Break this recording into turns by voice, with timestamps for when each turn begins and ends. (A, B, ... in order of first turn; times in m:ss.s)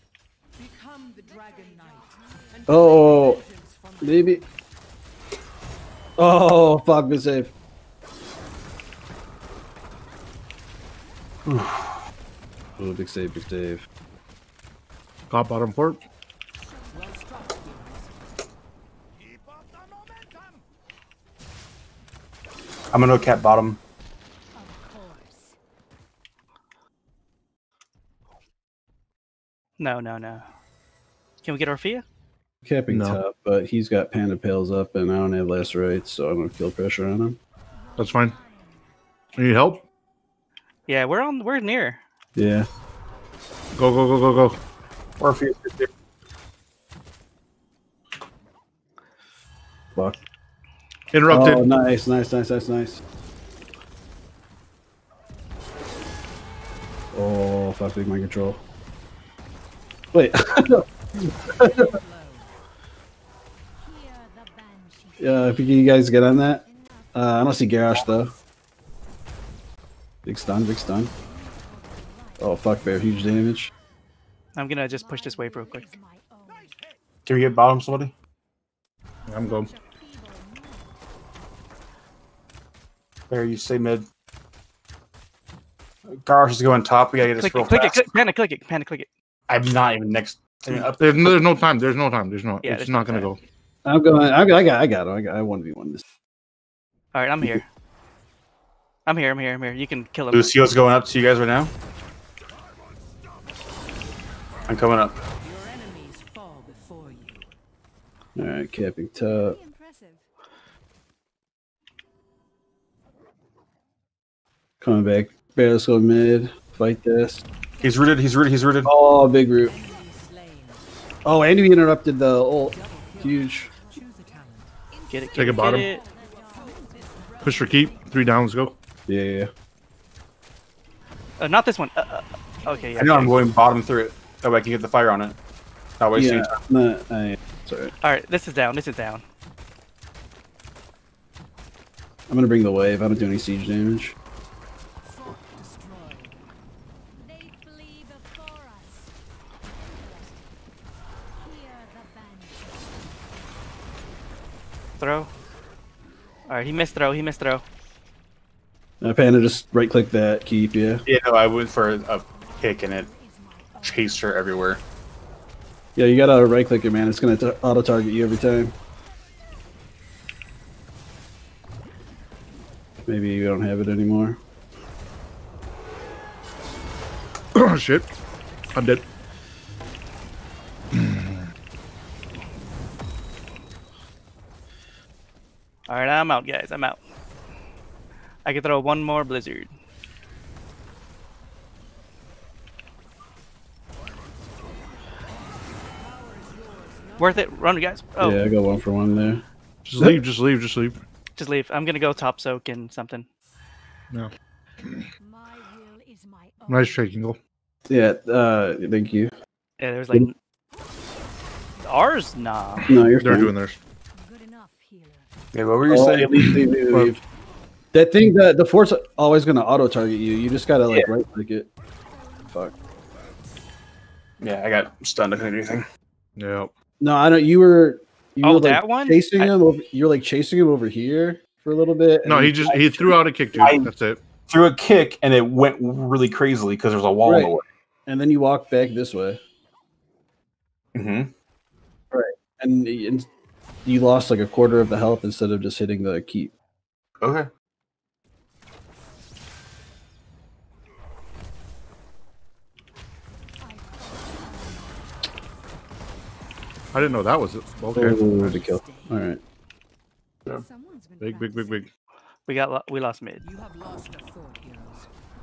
0:00.6-0:04.5 A
0:01.2-0:03.0 B
0:02.7-0:03.4 C
0:04.0-0:04.4 C
0:06.2-0:07.5 C
0:11.4-0:11.9 C
0:12.8-0:13.8 C
0:15.3-0:16.0 D
0:16.7-0:18.1 A
0:22.9-0:23.8 E
0:24.5-0:25.6 B
0:29.8-0:30.5 F
0:31.4-0:32.0 F
0:32.6-0:37.4 C
0:32.9-0:33.2 D
0:37.7-0:38.9 B
0:38.0-0:38.3 D
0:39.4-0:39.8 D
0:40.9-0:42.0 F
0:42.4-0:42.7 C
0:43.8-0:44.6 D
0:45.2-0:45.9 E
0:51.1-0:51.7 D
0:51.3-0:53.0 C
0:57.1-0:58.6 C
1:00.1-1:01.9 C
1:01.3-1:02.5 A
1:03.8-1:07.7 B
1:05.2-1:08.3 C
1:10.2-1:11.1 C
1:10.5-1:13.5 B
1:12.4-1:13.7 C
1:14.6-1:15.8 F
1:14.7-1:16.8 B
1:17.2-1:18.1 E
1:19.2-1:21.1 B
1:19.3-1:19.7 D
1:23.3-1:24.1 E
1:26.1-1:28.1 E
1:27.4-1:29.1 F
1:29.5-1:31.4 E
1:31.0-1:33.4 D
1:32.6-1:33.3 F
1:33.8-1:36.0 C
1:37.1-1:37.6 F
1:39.0-1:40.6 F
1:40.3-1:41.7 E
1:44.6-1:45.2 E
1:45.4-1:47.5 A
1:48.4-1:49.6 C
1:49.3-1:50.3 B
1:54.8-1:57.4 C
1:57.8-1:58.1 B
1:57.8-1:58.9 E
1:58.8-1:59.7 C
1:59.6-2:00.8 A
2:01.2-2:03.7 C
2:02.7-2:07.9 A
2:03.4-2:04.4 B
2:05.1-2:06.0 F
2:05.3-2:05.9 D
2:05.5-2:08.5 B
2:07.4-2:08.7 D
2:09.1-2:09.5 C
2:11.4-2:13.5 F
2:12.6-2:13.5 B
2:13.0-2:15.4 E
2:16.0-2:16.6 E
2:16.1-2:17.9 C
2:18.0-2:19.2 F
2:22.3-2:24.1 C
2:25.0-2:26.4 A
2:27.2-2:29.1 B
2:29.7-2:30.5 B
2:31.4-2:33.2 B
2:35.0-2:35.3 F
2:36.5-2:37.6 F
2:39.0-2:41.0 C
2:41.0-2:43.1 E
2:42.3-2:44.7 B
2:43.8-2:44.8 E
2:46.0-2:48.7 C
2:53.1-2:54.4 C
2:57.5-2:58.1 D
2:58.7-2:59.0 D
3:00.9-3:01.4 D
3:05.9-3:07.0 F
3:08.4-3:09.7 F
3:15.8-3:17.5 A
3:17.2-3:18.4 F
3:18.2-3:19.4 C
3:19.8-3:21.0 D
3:21.4-3:23.3 F
3:25.2-3:27.0 B
3:26.7-3:27.4 D
3:27.9-3:29.3 C
3:29.8-3:30.3 F
3:30.7-3:31.2 B
3:31.8-3:32.9 F
3:32.8-3:33.8 D
3:32.9-3:33.5 C
3:34.1-3:35.3 B
3:35.5-3:36.5 E
3:35.9-3:37.2 C
3:37.9-3:41.7 C
3:42.0-3:43.1 B
3:42.4-3:42.7 C
3:44.4-3:45.8 E
3:46.4-3:46.7 D
3:47.0-3:53.2 C
3:48.4-3:49.5 F
3:52.2-3:54.2 D
3:53.6-3:53.9 E
3:54.5-3:57.6 E
3:57.2-3:57.5 C
3:58.1-3:59.4 C
4:00.9-4:01.3 E
4:02.1-4:03.3 C
4:03.8-4:06.5 C
4:07.2-4:07.5 E
4:13.6-4:15.3 B
4:16.9-4:18.6 D
4:17.2-4:19.2 A
4:17.9-4:19.4 C
4:20.5-4:21.8 B
4:21.2-4:21.9 D
4:22.5-4:23.4 F
4:23.4-4:25.1 A